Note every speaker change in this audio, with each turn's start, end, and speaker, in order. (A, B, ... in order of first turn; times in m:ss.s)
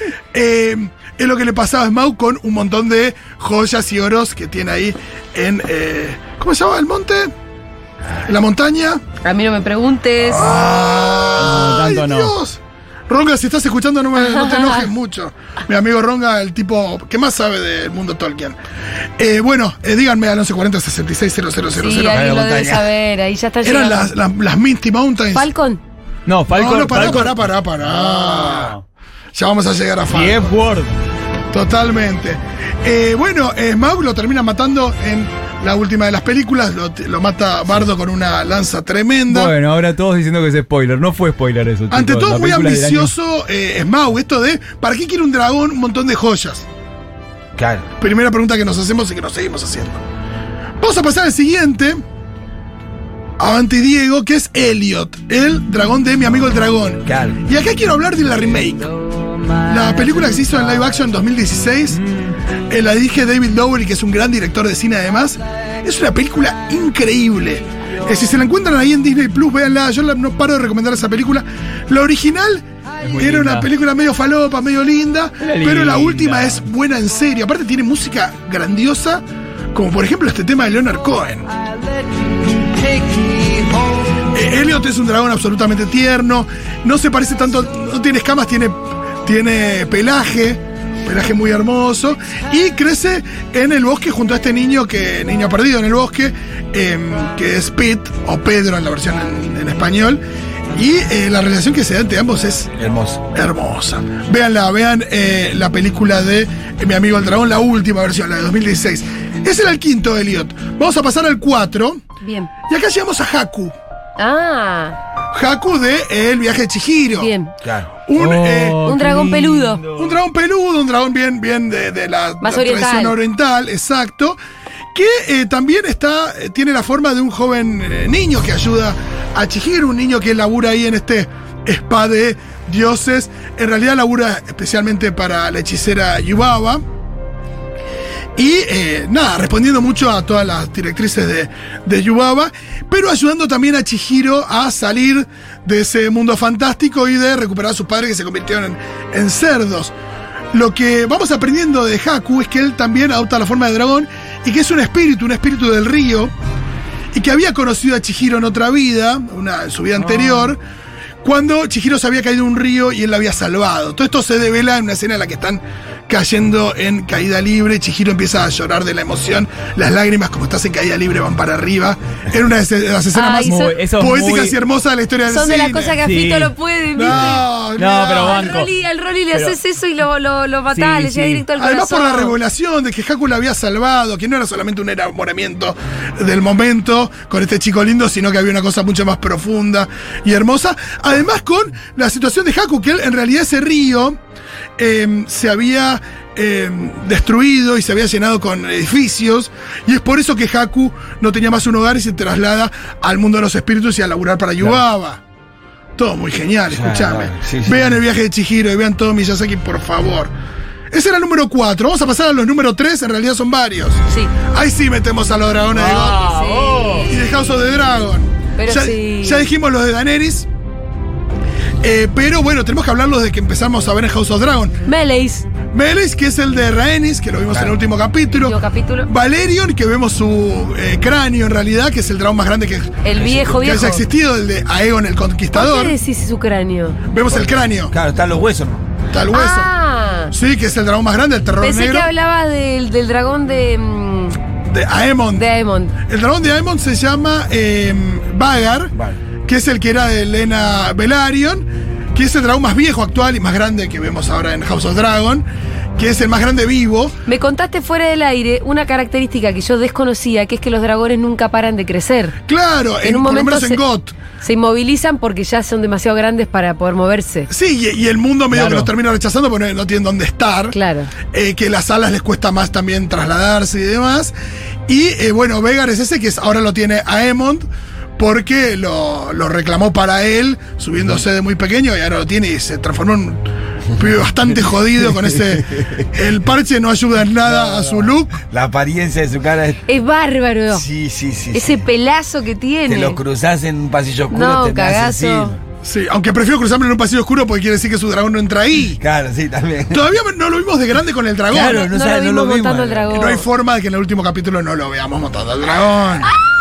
0:00.3-0:07.3 A
0:08.2-0:09.0 A
0:09.2-0:10.6 B
0:10.3-0:18.6 A
0:11.4-0:12.3 C
0:14.2-0:14.9 B
0:19.2-0:22.2 A
0:21.8-0:24.1 B
0:22.0-0:22.9 D
0:23.6-0:25.5 A
0:25.3-0:25.8 B
0:26.2-0:28.8 C
0:26.5-0:28.8 A
0:29.3-0:30.5 A
0:30.1-0:30.9 C
0:31.5-0:39.5 A
0:39.3-0:43.1 C
0:41.9-0:46.6 A
0:47.6-0:47.9 D
0:48.0-0:50.0 A
0:50.8-0:52.0 A
0:53.4-0:58.9 A
0:57.1-0:57.4 D
0:59.6-1:02.0 A
1:01.9-1:02.3 C
1:02.7-1:21.5 A
1:13.0-1:13.7 C
1:15.4-1:16.6 C
1:24.3-1:42.7 A
1:42.8-1:43.2 D
1:43.3-1:52.0 A
1:52.2-1:52.5 B
1:52.6-1:53.7 A
1:54.2-1:55.0 B
1:55.3-1:57.3 A
1:57.2-1:57.5 B
1:57.6-1:57.9 D
1:58.0-1:58.9 A
1:58.2-2:00.2 C
1:58.8-1:59.8 B
1:59.9-2:04.4 A
2:02.4-2:03.2 B
2:04.9-2:16.8 A
2:18.4-2:29.9 A
2:30.5-2:36.3 A
2:37.1-2:40.6 A
2:40.1-2:40.5 C
2:41.2-2:56.0 A
2:53.1-2:53.7 B
2:53.4-2:54.6 C
2:55.3-2:57.4 B
2:56.0-2:56.5 C
2:57.0-2:58.6 A
2:57.8-2:58.7 C
2:58.2-3:02.3 B
3:00.7-3:01.4 C
3:01.6-3:14.2 A
3:14.8-3:25.2 A
3:26.0-3:30.3 A
3:26.7-3:28.0 D
3:30.9-3:36.3 A
3:35.7-3:37.1 C
3:36.2-3:37.2 B
3:37.0-3:40.5 A
3:38.6-3:39.5 B
3:41.8-3:44.8 A
3:44.8-3:45.5 B
3:45.7-3:56.0 A
3:48.3-3:49.1 B
3:53.0-3:54.0 B
3:53.2-3:53.6 D
3:55.5-3:57.0 B
3:57.1-3:57.9 A
3:57.3-3:58.8 D
3:59.1-3:59.7 A
3:59.3-4:00.3 B
4:00.3-4:02.1 A
4:01.6-4:04.4 B
4:04.7-4:08.9 A
4:05.4-4:05.9 B
4:09.4-4:17.2 A
4:17.2-4:22.4 B
4:22.5-4:24.1 A
4:23.0-4:23.8 B
4:24.4-4:27.5 B
4:27.5-4:30.8 A
4:28.5-4:28.9 C
4:30.7-4:31.1 B
4:31.3-4:34.3 A
4:34.9-4:37.6 A
4:38.2-4:48.4 A
4:45.8-4:46.0 D
4:47.4-4:49.8 D
4:49.8-4:50.8 B
4:50.7-4:51.9 D
4:51.5-4:53.2 B
4:52.9-4:55.6 D
4:54.3-4:55.5 B
4:55.8-4:59.0 A
4:59.0-5:00.1 D
4:59.9-5:01.9 A
5:01.5-5:03.1 D
5:01.7-5:03.4 B
5:03.1-5:06.3 A